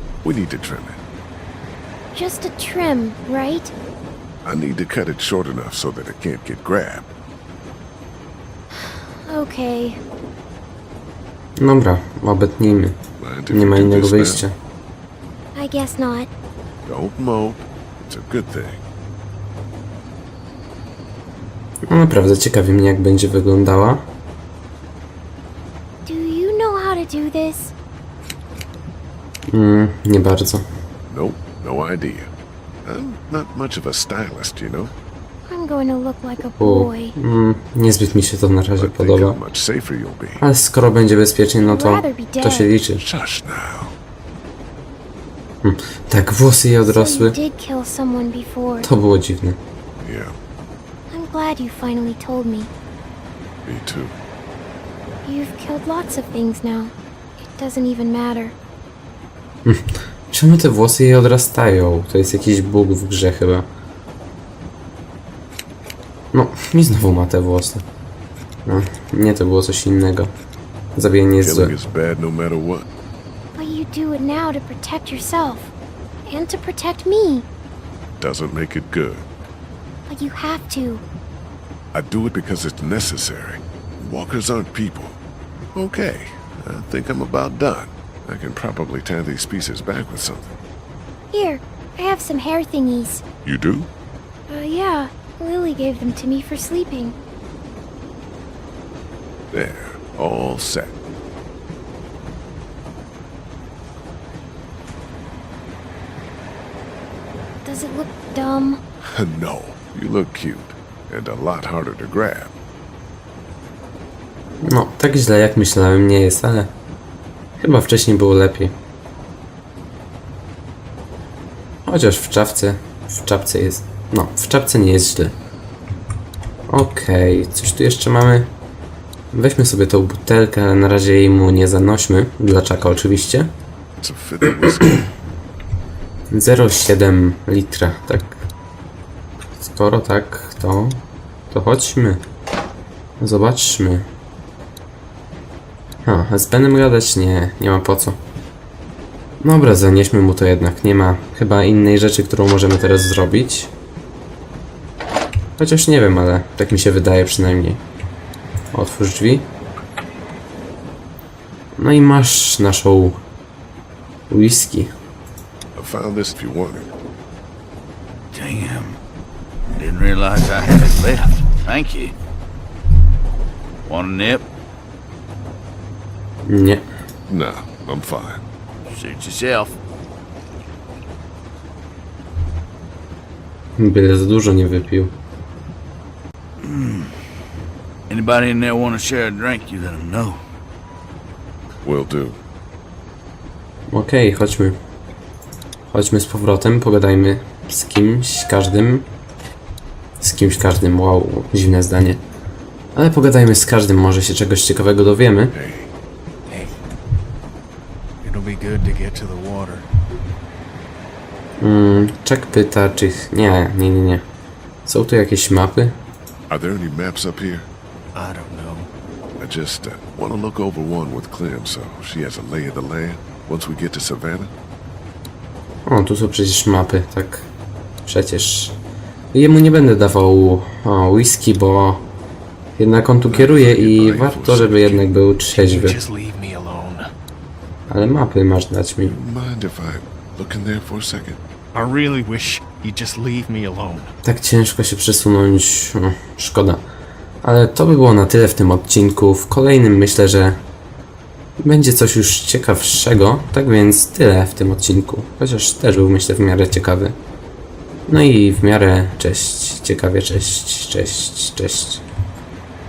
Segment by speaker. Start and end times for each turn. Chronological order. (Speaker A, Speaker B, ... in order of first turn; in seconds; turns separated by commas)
Speaker A: 0.2-1.0, Speaker B: 2.1-3.7, Speaker A: 4.4-7.1, Speaker B: 8.7-10.0, Speaker C: 11.6-13.0, Speaker A: 13.2-14.4, Speaker C: 13.5-14.5, Speaker B: 15.5-16.3, Speaker A: 16.9-18.8, Speaker C: 21.9-24.1, Speaker B: 26.1-27.7, Speaker C: 29.5-30.6, Speaker A: 31.1-32.3, Speaker A: 32.8-34.9, Speaker B: 35.5-37.1, Speaker C: 36.6-39.4, Speaker A: 38.8-40.4, Speaker C: 40.4-43.0, Speaker B: 41.6-42.7, Speaker A: 43.0-44.0, Speaker C: 45.6-47.4, Speaker B: 46.8-48.9, Speaker C: 48.8-49.6, Speaker A: 50.0-50.3, Speaker B: 51.1-52.7, Speaker A: 53.6-54.1, Speaker B: 55.2-58.5, Speaker C: 59.6-63.7, Speaker C: 66.3-67.8, Speaker C: 68.7-70.3, Speaker C: 71.0-71.7, Speaker A: 71.4-72.8, Speaker B: 73.5-75.7, Speaker B: 76.3-77.5, Speaker A: 78.2-79.2, Speaker B: 80.1-81.0, Speaker A: 81.9-85.2, Speaker A: 85.7-90.6, Speaker B: 91.3-93.2, Speaker A: 93.4-93.9, Speaker B: 94.5-97.2, Speaker A: 99.5-100.9, Speaker B: 107.6-108.8, Speaker A: 109.2-112.5, Speaker C: 114.6-116.7, Speaker C: 117.6-118.7, Speaker C: 121.8-125.3, Speaker C: 126.7-128.5, Speaker C: 129.3-133.5, Speaker A: 134.0-135.0, Speaker C: 136.3-138.4, Speaker C: 139.6-142.2, Speaker C: 143.2-144.1, Speaker C: 146.0-148.2, Speaker C: 149.4-153.7, Speaker C: 155.6-157.8, Speaker C: 158.7-159.5, Speaker C: 161.8-163.2, Speaker C: 164.3-164.9, Speaker A: 165.8-166.9, Speaker D: 168.3-169.0, Speaker D: 169.8-172.1, Speaker D: 173.8-174.4, Speaker C: 176.4-176.8, Speaker A: 177.3-178.4, Speaker D: 178.8-179.8, Speaker C: 183.8-185.1, Speaker D: 186.6-187.2, Speaker D: 188.1-190.4, Speaker A: 191.8-192.4, Speaker C: 193.9-194.8, Speaker C: 195.9-199.1, Speaker C: 200.2-202.2, Speaker C: 202.9-205.5, Speaker A: 205.5-205.9, Speaker E: 206.5-206.8, Speaker E: 208.2-209.8, Speaker C: 211.6-214.2, Speaker C: 214.8-215.9, Speaker A: 216.5-217.7, Speaker E: 218.1-218.9, Speaker A: 219.4-224.5, Speaker C: 225.9-227.5, Speaker C: 228.1-228.8, Speaker C: 229.3-232.1, Speaker C: 232.8-236.0, Speaker A: 233.3-235.1, Speaker E: 235.5-237.1, Speaker C: 237.9-239.2, Speaker A: 239.0-241.4, Speaker E: 241.7-244.1, Speaker C: 244.2-246.8, Speaker C: 247.4-250.6, Speaker C: 251.6-257.1, Speaker C: 258.1-262.0